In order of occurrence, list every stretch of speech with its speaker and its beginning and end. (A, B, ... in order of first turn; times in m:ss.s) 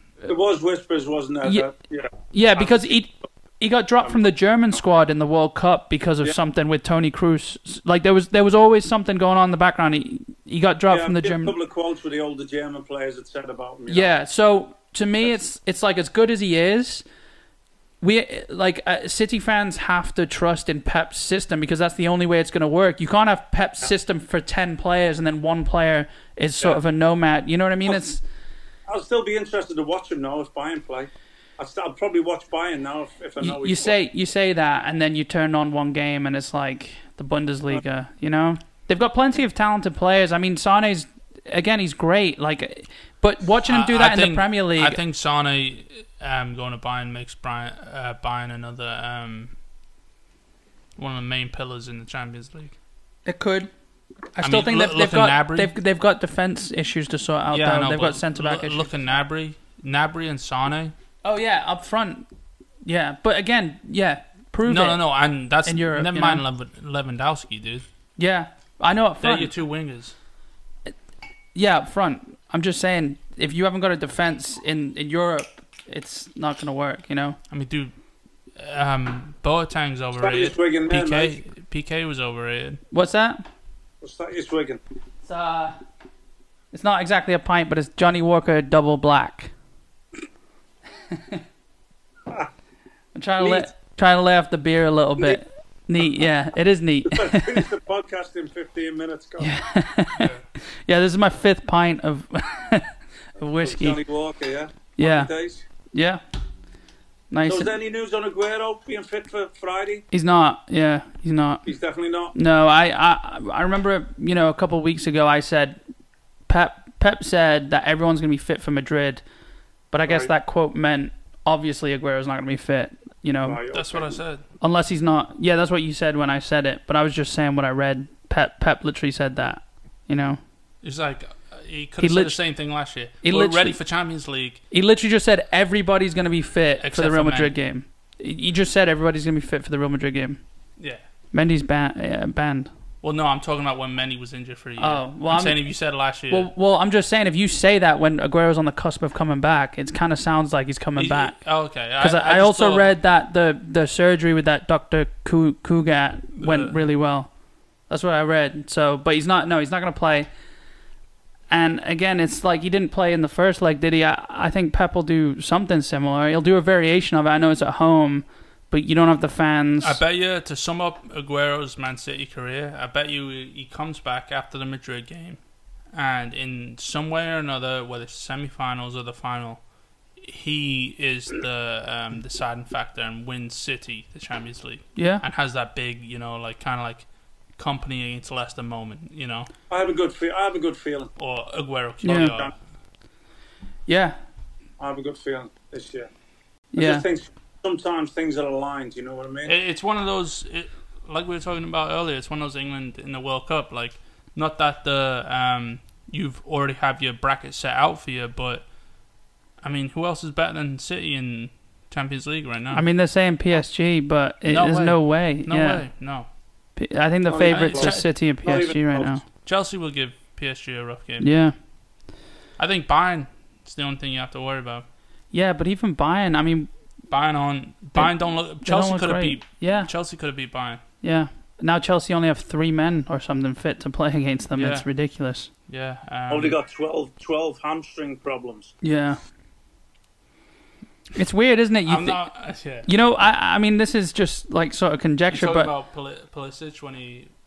0:00.3-0:02.9 A
0:01.4-0:01.7 B
0:02.3-0:11.5 B
0:10.9-0:14.1 A
0:13.9-0:17.0 B
0:18.0-0:28.2 B
0:28.9-0:34.0 A
0:33.4-0:45.0 B
0:43.7-0:49.5 C
0:51.0-0:52.7 C
0:53.2-0:53.7 B
0:54.3-0:58.9 B
0:54.4-0:55.7 C
0:57.5-1:00.9 C
1:01.2-1:02.2 B
1:02.9-1:05.0 B
1:04.6-1:07.8 C
1:05.6-1:06.4 B
1:08.2-1:09.5 B
1:09.2-1:10.2 C
1:11.6-1:17.4 B
1:17.5-1:17.9 C
1:18.6-1:22.8 C
1:20.2-1:21.4 A
1:22.9-1:23.4 B
1:24.0-1:24.8 A
1:25.2-1:25.8 B
1:26.7-1:29.5 B
1:31.1-1:31.4 B
1:33.1-1:37.7 B
1:33.4-1:33.7 A
1:37.1-1:39.5 A
1:39.4-1:44.0 B
1:40.2-1:40.4 C
1:43.6-1:45.6 A
1:45.0-1:45.3 B
1:45.9-1:46.2 B
1:47.3-1:47.7 B
1:47.4-1:50.0 A
1:50.1-1:51.7 B
1:51.6-1:52.3 A
1:52.3-1:55.8 B
1:56.5-1:59.2 B
1:59.9-2:03.6 B
2:03.4-2:04.2 A
2:03.7-2:04.4 C
2:04.6-2:10.4 B
2:10.8-2:14.6 C
2:12.0-2:12.4 B
2:13.2-2:13.8 B
2:14.7-2:20.4 B
2:16.8-2:17.6 C
2:21.3-2:22.7 B
2:23.0-2:26.5 C
2:24.8-2:25.6 B
2:26.3-2:31.4 B
2:31.0-2:32.9 C
2:32.0-2:37.3 B
2:36.4-2:36.8 C
2:37.9-2:40.3 B
2:41.5-2:50.0 B
2:49.8-2:55.4 C
2:55.9-2:59.6 C
3:00.2-3:07.0 C
3:05.0-3:05.2 B
3:07.6-3:09.5 C
3:09.7-3:11.1 A
3:11.2-3:12.6 C
3:12.0-3:12.3 B
3:12.0-3:12.5 A
3:13.9-3:14.2 B
3:14.8-3:16.1 A
3:16.7-3:17.0 B
3:16.8-3:19.5 A
3:19.4-3:28.6 C
3:29.6-3:32.8 C
3:32.7-3:35.8 B
3:34.5-3:36.3 C
3:36.8-3:39.2 B
3:37.3-3:39.2 A
3:37.5-3:38.1 C
3:39.4-3:41.3 C
3:41.2-3:41.6 B
3:42.6-3:44.9 C
3:45.3-3:46.7 B
3:47.1-3:50.8 C
3:47.9-3:49.9 B
3:51.0-3:55.5 B
3:54.6-3:54.9 C
3:55.7-3:56.6 C
3:56.3-3:58.7 A
3:58.8-3:59.2 B
4:01.1-4:02.2 B
4:01.9-4:02.9 C
4:02.8-4:05.7 B
4:05.3-4:07.3 C